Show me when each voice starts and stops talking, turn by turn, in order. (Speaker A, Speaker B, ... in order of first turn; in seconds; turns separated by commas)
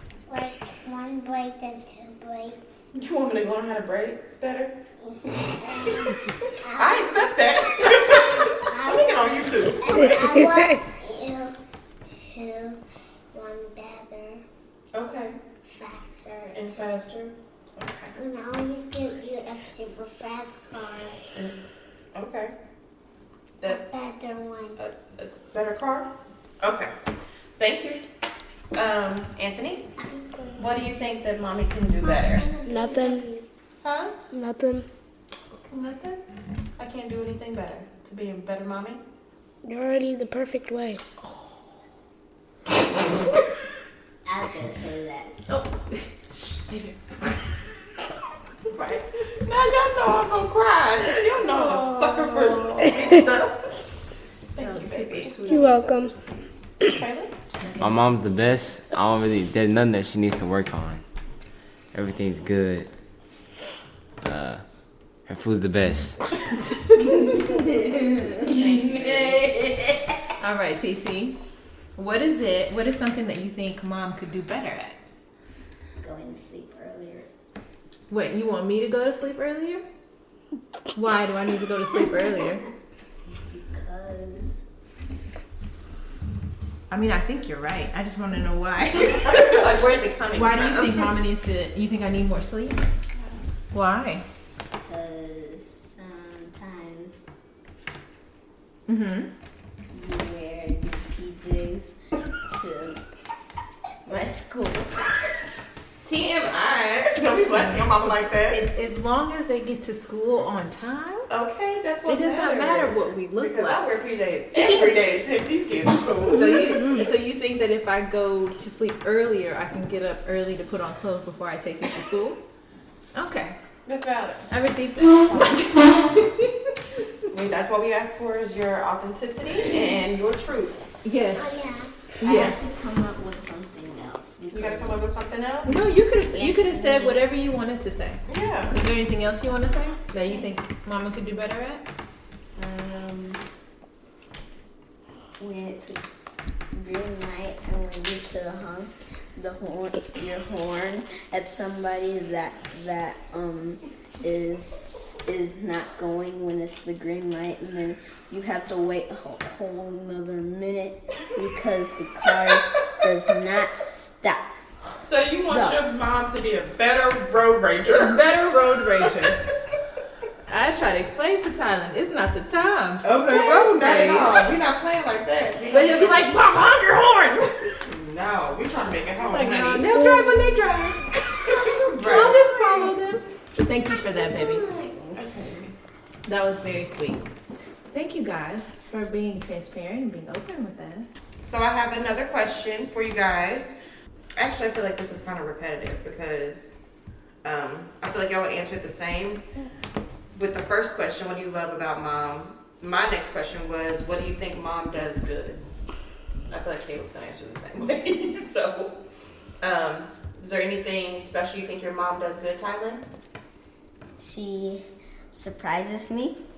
Speaker A: 0.3-2.8, Speaker B: 2.9-4.7, Speaker A: 5.0-12.8, Speaker B: 6.7-10.1, Speaker C: 9.9-10.7, Speaker A: 13.3-14.4, Speaker B: 14.9-15.4, Speaker A: 15.6-16.9, Speaker B: 16.5-18.1, Speaker A: 18.1-21.2, Speaker B: 22.1-22.5, Speaker A: 23.6-24.8, Speaker B: 24.8-26.1, Speaker B: 26.6-26.9, Speaker B: 27.6-28.0, Speaker B: 28.7-29.9, Speaker A: 30.0-31.1, Speaker B: 30.6-32.5, Speaker A: 32.0-33.5, Speaker C: 32.6-33.3, Speaker B: 33.8-34.1, Speaker C: 34.3-34.9, Speaker B: 35.5-36.2, Speaker B: 36.8-39.0, Speaker C: 39.6-41.0, Speaker D: 41.2-41.6, Speaker E: 44.3-45.3, Speaker D: 45.5-47.0, Speaker B: 48.7-53.8, Speaker C: 51.5-52.6, Speaker B: 54.5-57.3, Speaker D: 54.6-55.7, Speaker C: 55.5-56.1, Speaker D: 57.5-58.0, Speaker F: 57.8-61.0, Speaker F: 61.9-62.9, Speaker F: 64.2-64.6, Speaker F: 65.3-66.2, Speaker E: 67.4-70.1, Speaker D: 70.4-71.4, Speaker D: 72.0-75.0, Speaker E: 76.0-77.3, Speaker D: 78.1-79.8, Speaker D: 80.9-82.6, Speaker E: 83.5-84.5, Speaker D: 86.9-89.6, Speaker B: 89.0-91.1, Speaker D: 90.3-92.9, Speaker D: 93.7-94.2, Speaker E: 94.8-97.2, Speaker D: 98.9-99.3, Speaker E: 99.9-101.9, Speaker E: 102.5-103.0, Speaker E: 104.1-105.2, Speaker B: 106.0-108.6, Speaker D: 107.5-107.9, Speaker D: 108.4-111.3, Speaker B: 111.3-117.0, Speaker D: 112.0-113.9, Speaker D: 114.5-115.0, Speaker D: 116.3-122.4, Speaker D: 123.1-123.6, Speaker B: 123.8-124.5, Speaker D: 124.5-126.5, Speaker B: 125.1-125.6, Speaker B: 127.3-130.9, Speaker D: 131.0-131.6, Speaker A: 131.3-132.4, Speaker D: 132.2-132.6, Speaker B: 132.2-132.5, Speaker E: 132.2-135.0, Speaker B: 134.5-135.8, Speaker D: 135.7-138.2, Speaker E: 136.3-137.2, Speaker B: 138.3-138.7, Speaker D: 138.7-141.8, Speaker B: 142.6-143.4, Speaker E: 145.4-146.0, Speaker E: 146.7-164.5, Speaker B: 165.0-168.3, Speaker E: 165.5-165.8, Speaker D: 167.9-169.4, Speaker D: 170.5-174.5, Speaker B: 173.0-176.3, Speaker D: 175.7-177.7, Speaker B: 177.8-179.9, Speaker D: 179.2-181.0, Speaker C: 179.9-180.6, Speaker A: 181.4-181.8, Speaker B: 181.8-182.9, Speaker D: 182.0-184.6, Speaker A: 184.1-185.0, Speaker B: 185.1-185.7, Speaker D: 186.2-187.3, Speaker D: 187.9-191.1, Speaker B: 191.4-193.7, Speaker B: 194.4-196.8, Speaker B: 197.4-199.4, Speaker B: 200.3-205.6, Speaker B: 206.5-209.0, Speaker B: 209.6-213.0, Speaker E: 214.2-216.4